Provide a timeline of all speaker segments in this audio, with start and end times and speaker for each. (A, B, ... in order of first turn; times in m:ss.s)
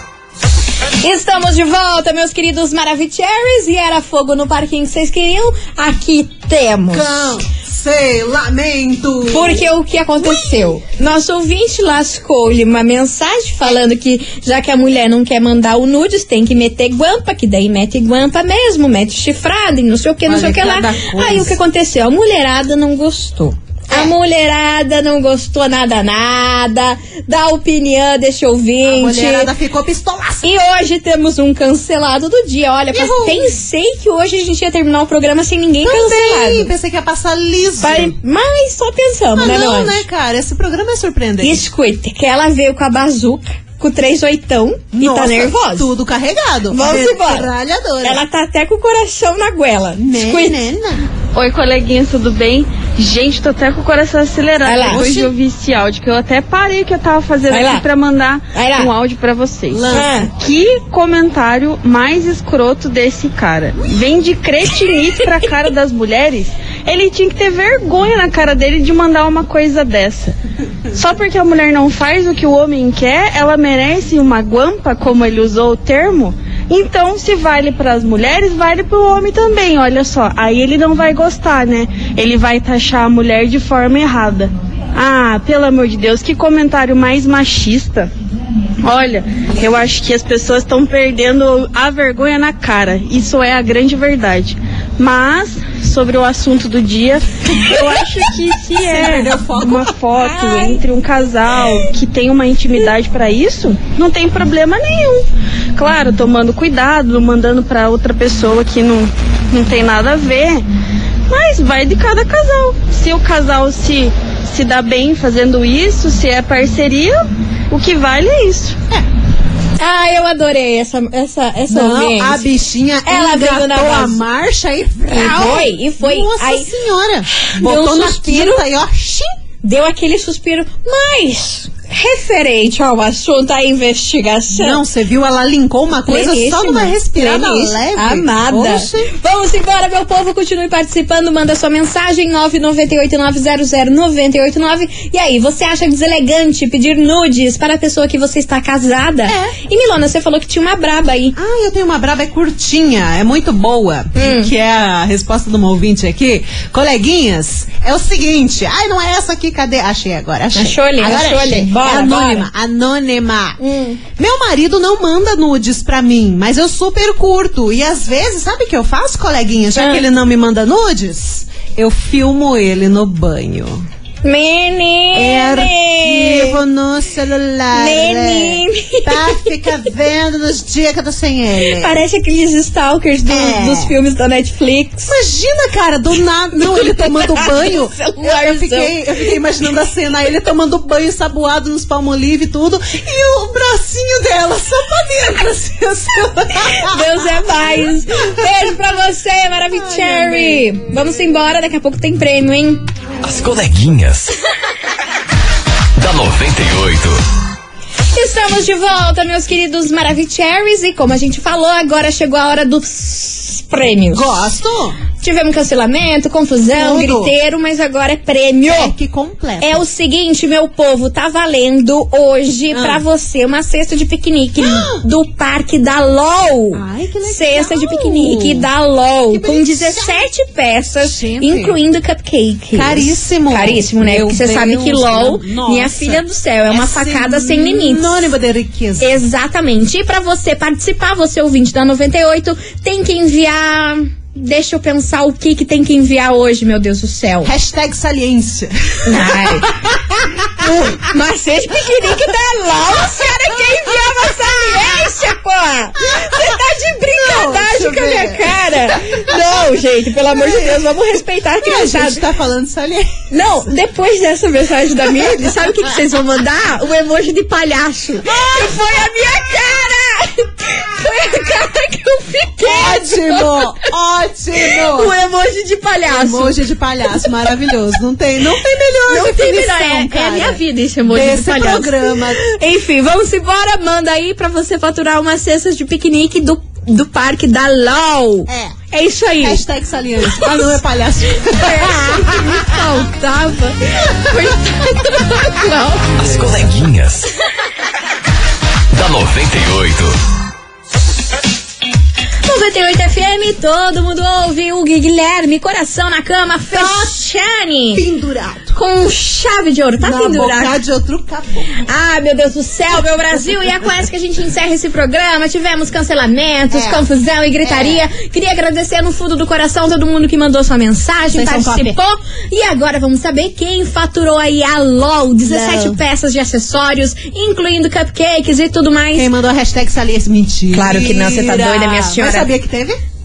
0:01.0-0:07.3 A
0:06.9-0:09.6 B
0:09.3-0:29.5 A
0:10.2-0:10.8 B
0:20.2-0:21.6 B
0:28.9-0:30.5 B
0:30.4-0:36.7 A
0:32.9-0:33.5 B
0:35.8-0:38.2 B
0:37.8-0:40.0 A
0:39.4-0:41.6 B
0:41.4-0:45.9 A
0:44.9-0:48.2 B
0:46.7-0:47.5 A
0:48.0-0:50.6 A
0:50.0-0:51.0 B
0:51.3-1:10.4 C
0:54.6-0:55.1 A
0:54.8-0:55.3 B
0:57.5-0:57.8 A
0:58.5-0:58.9 A
0:59.7-1:00.2 B
0:59.9-1:00.3 A
1:10.9-1:28.1 C
1:28.8-1:50.6 C
1:38.8-1:39.9 B
1:40.2-1:40.8 A
1:51.3-1:58.8 C
1:59.8-2:02.4 A
2:01.7-2:09.3 B
2:03.0-2:04.2 A
2:05.1-2:06.7 A
2:07.3-2:08.6 A
2:09.6-2:14.8 A
2:14.5-2:19.1 B
2:16.0-2:31.3 A
2:29.3-2:29.6 B
2:31.4-2:43.6 B
2:34.2-2:34.5 A
2:40.5-2:42.5 A
2:43.6-2:44.0 A
2:44.2-2:53.8 B
2:49.8-2:50.0 A
2:54.2-2:56.6 A
2:55.1-3:02.0 B
2:57.7-2:59.4 A
3:01.6-3:05.1 A
3:03.3-3:03.9 B
3:05.1-3:18.6 B
3:06.6-3:09.0 A
3:16.7-3:22.8 A
3:19.8-3:20.9 B
3:23.2-3:24.3 D
3:26.0-3:27.2 D
3:28.1-3:34.4 A
3:34.1-3:35.0 B
3:35.2-3:38.9 A
3:36.7-3:37.3 B
3:38.6-3:39.8 B
3:39.6-3:58.3 A
3:42.7-3:43.0 B
3:44.6-3:45.0 B
3:46.7-3:48.6 B
3:49.3-3:50.2 B
3:51.0-3:51.8 B
3:52.7-3:59.1 B
3:59.0-4:07.5 A
4:07.4-4:10.9 B
4:09.0-4:10.0 A
4:10.6-4:22.2 A
4:13.2-4:15.0 B
4:16.0-4:16.5 B
4:17.1-4:19.4 B
4:20.3-4:20.9 B
4:21.6-4:23.3 B
4:23.3-4:33.7 A
4:28.2-4:29.2 B
4:32.6-4:35.1 B
4:34.9-4:36.6 A
4:36.1-4:42.4 B
4:39.1-4:49.6 A
4:48.5-4:48.8 B
4:49.4-4:52.8 B
4:50.4-4:50.7 A
4:51.5-4:56.2 A
4:56.2-4:57.3 D
4:58.9-5:00.2 D
5:02.4-5:08.0 A
5:06.7-5:07.2 B
5:07.9-5:08.8 B
5:08.7-5:10.7 A
5:10.0-5:11.8 B
5:11.8-5:29.3 A
5:16.7-5:17.0 B
5:17.6-5:18.0 B
5:21.3-5:22.0 B
5:25.4-5:26.0 B
5:29.1-5:33.0 B
5:30.7-5:32.5 A